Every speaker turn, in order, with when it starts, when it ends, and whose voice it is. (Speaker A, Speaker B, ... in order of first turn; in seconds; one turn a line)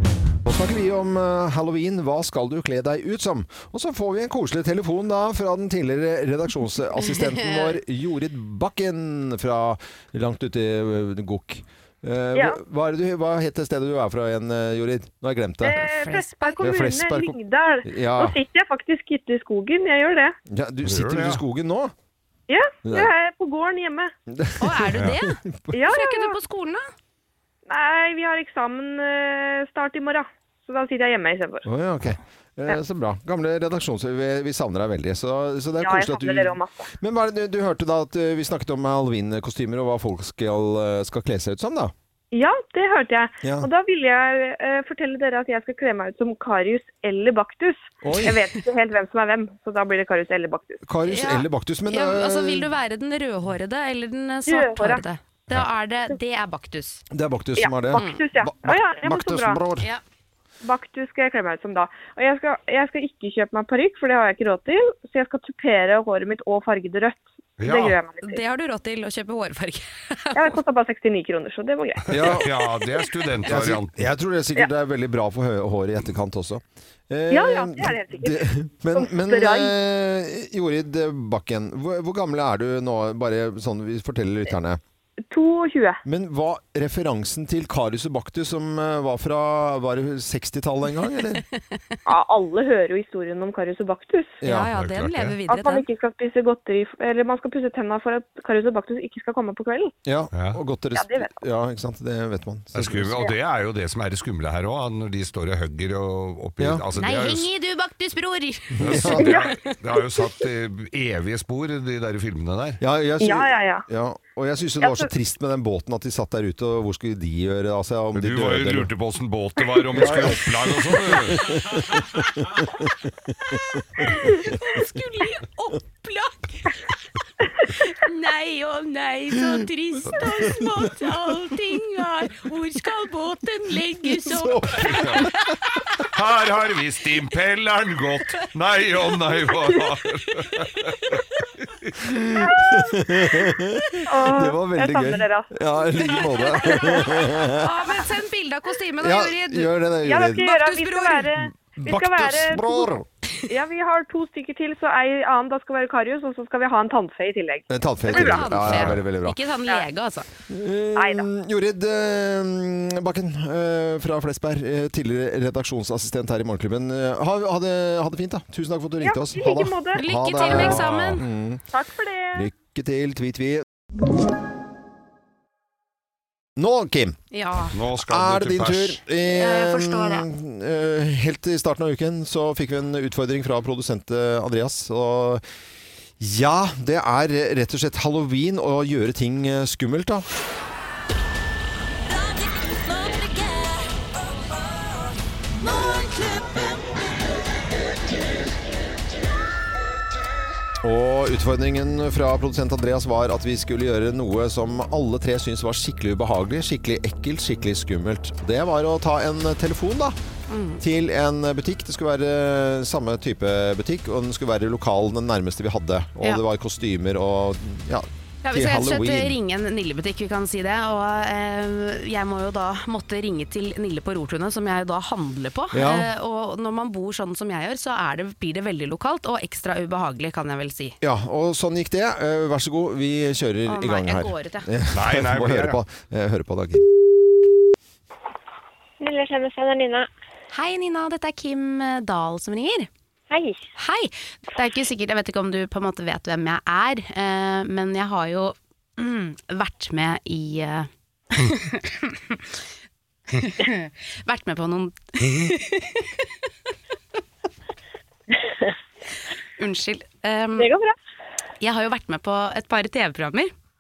Speaker A: 0.4-16.0
Speaker B: 7.0-7.8
Speaker C: 12.3-12.6
Speaker C: 15.6-20.4
Speaker B: 16.0-16.6
Speaker A: 16.6-18.4
Speaker A: 20.5-21.9
Speaker D: 20.9-21.4
Speaker C: 22.5-24.1
Speaker A: 22.9-23.1
Speaker A: 24.3-25.8
Speaker B: 24.6-26.9
Speaker C: 25.7-26.4
Speaker C: 27.7-31.6
Speaker A: 31.6-41.9
Speaker C: 35.8-36.9
Speaker C: 42.3-50.8
Speaker A: 43.4-43.7
Speaker A: 48.0-48.4
Speaker A: 50.9-52.7
Speaker B: 51.1-57.0
Speaker C: 54.5-55.0
Speaker A: 57.1-59.9
Speaker C: 57.6-59.6
Speaker B: 58.0-58.2
Speaker C: 60.6-68.4
Speaker D: 67.6-68.0
Speaker B: 68.2-70.6
Speaker C: 70.3-72.2
Speaker A: 72.1-72.5
Speaker D: 72.1-74.0
Speaker A: 73.4-84.8
Speaker C: 77.3-79.7
Speaker C: 85.3-86.0
Speaker A: 86.0-91.4
Speaker C: 92.1-94.4
Speaker A: 94.4-94.7
Speaker B: 94.4-95.9
Speaker D: 94.7-95.4
Speaker C: 95.5-100.0
Speaker A: 100.1-103.2
Speaker D: 100.3-100.6
Speaker C: 101.0-101.4
Speaker D: 102.7-107.5
Speaker A: 106.6-106.8
Speaker B: 107.0-109.4
Speaker A: 108.8-109.4
Speaker D: 108.8-112.8
Speaker C: 109.3-109.5
Speaker A: 112.8-118.9
Speaker C: 113.2-113.9
Speaker C: 114.8-115.1
Speaker D: 118.2-121.6
Speaker A: 119.9-124.3
Speaker B: 124.1-126.8
Speaker B: 127.7-135.5
Speaker A: 134.2-135.3
Speaker D: 134.7-135.3
Speaker D: 136.0-141.9
Speaker A: 142.0-147.7
Speaker C: 142.4-142.9
Speaker C: 144.1-145.5
Speaker B: 146.4-149.7
Speaker A: 149.0-150.5
Speaker C: 150.1-152.9
Speaker B: 150.3-151.3
Speaker A: 151.8-153.1
Speaker C: 153.5-158.4
Speaker A: 157.7-159.4
Speaker B: 158.1-160.3
Speaker D: 158.6-159.0
Speaker A: 160.5-171.6
Speaker C: 161.0-161.3
Speaker C: 169.0-170.0
Speaker B: 169.9-171.2
Speaker D: 170.7-171.2
Speaker C: 171.7-172.5
Speaker A: 172.3-173.6
Speaker A: 176.6-177.2
Speaker B: 177.3-177.8
Speaker D: 177.7-179.0
Speaker A: 178.1-185.4
Speaker B: 179.4-180.2
Speaker A: 186.2-190.3
Speaker A: 200.8-210.2
Speaker B: 210.5-210.8
Speaker A: 210.8-219.4
Speaker B: 218.4-231.0
Speaker A: 225.7-226.1
Speaker A: 231.0-236.8
Speaker B: 233.7-234.7
Speaker D: 234.9-235.8
Speaker E: 239.0-240.1
Speaker B: 240.5-242.9
Speaker E: 243.3-243.6
Speaker B: 243.8-252.4
Speaker B: 253.3-256.2
Speaker E: 258.4-258.7
Speaker B: 259.6-260.7
Speaker E: 260.6-261.0
Speaker B: 261.6-263.5